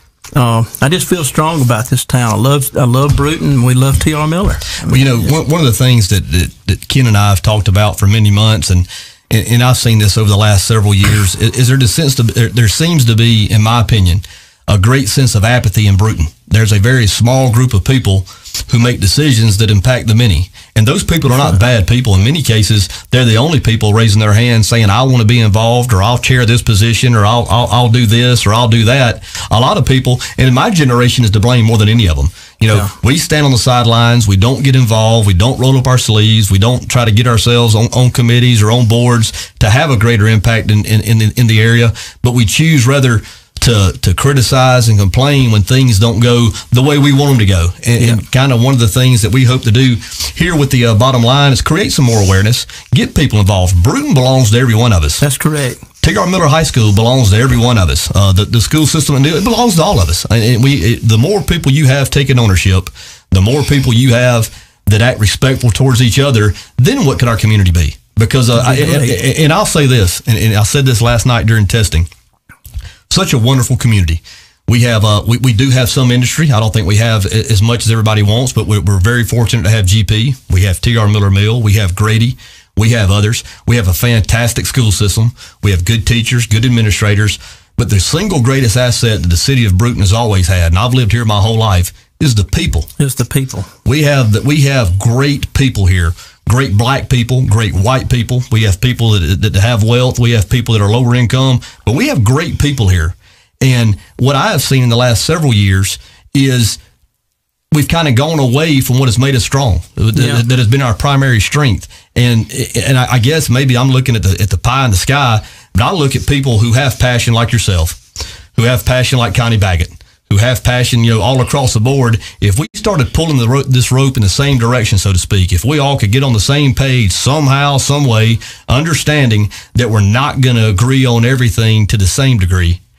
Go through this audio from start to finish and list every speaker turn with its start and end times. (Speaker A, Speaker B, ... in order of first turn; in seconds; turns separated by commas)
Speaker A: 0.3-5.3, Speaker B: 4.9-55.2, Speaker A: 55.2-55.8, Speaker B: 56.0-72.1, Speaker A: 68.6-69.2, Speaker B: 73.1-92.9, Speaker A: 93.0-93.7, Speaker B: 93.8-106.8, Speaker B: 107.7-118.0, Speaker A: 110.2-110.4, Speaker B: 118.5-132.8